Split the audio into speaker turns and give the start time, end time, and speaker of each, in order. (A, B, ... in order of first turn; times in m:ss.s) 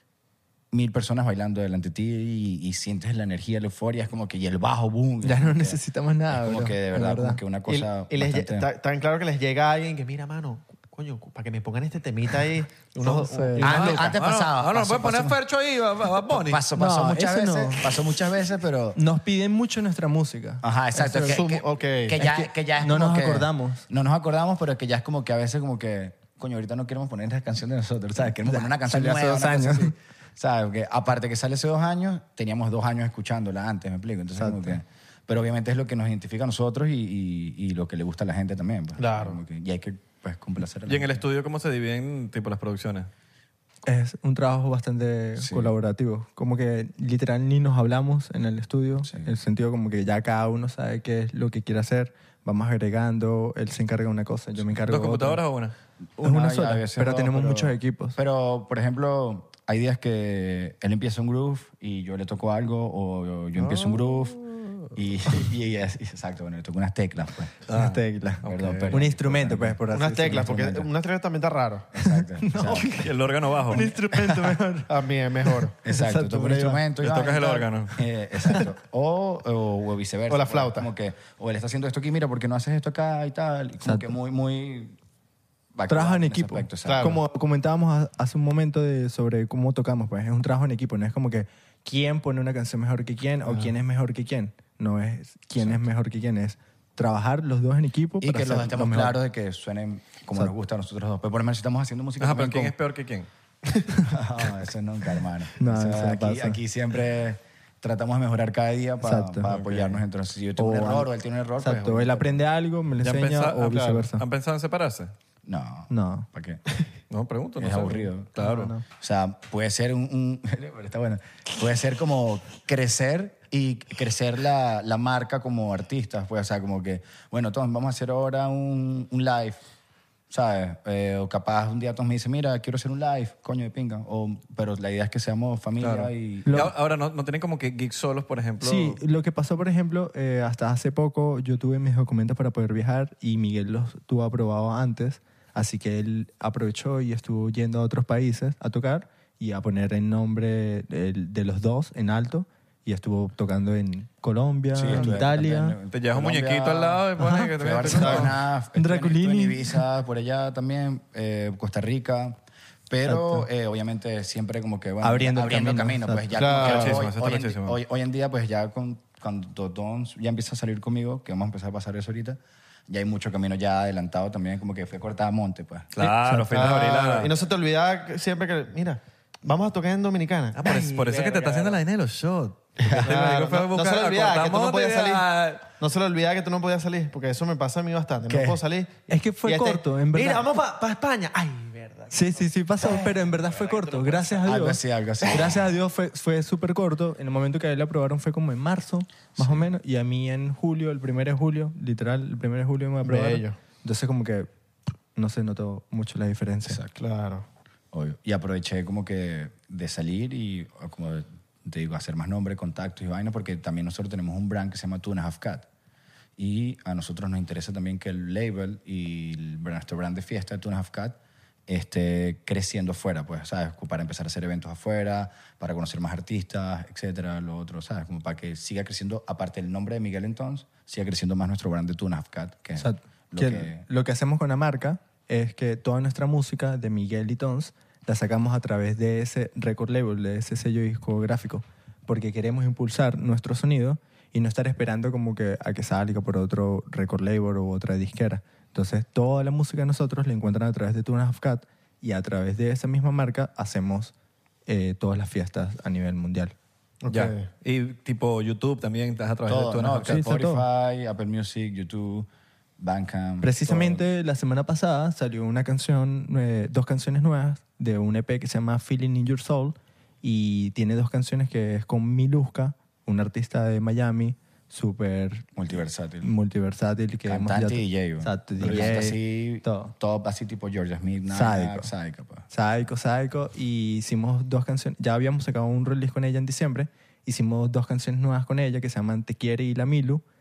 0:00.7-0:08.7 A
0:05.2-0:07.4 B
0:07.7-0:14.2 C
0:13.0-0:13.8 B
0:13.6-0:15.4 A
0:13.6-0:16.6 D
0:16.3-0:19.0 A
0:16.8-0:17.9 B
0:19.0-0:21.4 B
0:20.6-0:41.2 A
0:21.2-0:22.2 C
0:22.2-0:23.8 B
0:28.5-0:29.9 B
0:34.4-0:34.8 B
0:39.0-0:39.4 C
0:40.9-0:43.1 D
0:43.9-0:55.4 B
0:45.4-0:45.7 A
0:49.0-0:49.3 A
0:54.9-0:55.7 D
0:56.2-1:04.4 A
0:56.2-0:58.2 B
1:03.6-1:04.9 D
1:04.9-1:07.6 A
1:07.7-1:09.0 D
1:07.7-1:10.7 B
1:08.4-1:09.8 A
1:09.9-1:12.0 C
1:10.3-1:10.9 A
1:11.9-1:13.0 A
1:12.1-1:13.2 B
1:12.9-1:13.9 D
1:13.7-1:14.9 B
1:13.8-1:14.6 A
1:14.9-1:15.8 C
1:15.5-1:16.8 B
1:15.8-1:25.0 A
1:17.0-1:18.0 D
1:20.3-1:20.9 C
1:23.8-1:24.1 B
1:25.8-1:27.2 A
1:25.9-1:39.2 B
1:26.8-1:27.2 C
1:38.2-1:42.7 A
1:42.2-1:43.3 D
1:44.0-1:52.4 A
1:45.6-1:46.6 B
1:49.0-1:49.6 B
1:49.5-1:49.9 D
1:50.6-1:51.1 B
1:51.6-1:54.2 B
1:53.0-1:55.1 D
1:53.6-1:54.0 C
1:55.5-1:56.6 A
1:55.9-1:56.3 B
1:57.1-1:58.7 D
1:57.6-1:58.3 A
1:58.4-1:58.8 B
1:59.0-2:09.6 A
2:10.3-2:16.5 A
2:15.8-2:19.0 D
2:16.4-2:16.7 B
2:18.6-2:35.8 B
2:34.7-2:37.0 A
2:34.9-2:35.2 D
2:35.9-2:38.3 D
2:37.2-2:39.8 B
2:37.6-2:42.4 A
2:38.0-2:38.3 C
2:42.9-2:55.9 A
2:43.1-2:43.5 B
2:45.0-2:46.5 B
2:46.4-2:47.0 C
2:46.6-2:47.8 D
2:56.0-2:57.3 D
2:56.0-3:01.8 C
2:56.3-2:56.6 B
3:00.6-3:05.6 D
3:02.8-3:14.5 C
3:02.8-3:03.1 A
3:08.3-3:08.6 A
3:09.1-3:10.5 B
3:12.1-3:24.5 B
3:14.4-3:15.7 A
3:19.4-3:19.7 A
3:23.0-3:23.6 C
3:25.2-3:26.8 B
3:26.7-3:27.0 A
3:27.0-3:27.5 C
3:27.9-3:35.7 A
3:36.4-3:41.2 A
3:41.7-3:53.8 A
3:52.8-4:14.1 B
4:14.7-4:16.5 B
4:17.0-4:17.5 C
4:17.1-4:20.2 D
4:19.5-4:22.3 A
4:20.1-4:20.6 B
4:22.8-4:24.0 A
4:23.4-4:35.5 B
4:35.6-4:36.3 A
4:36.2-4:39.9 B
4:37.3-4:42.5 A
4:41.3-4:41.9 B
4:42.5-4:50.2 B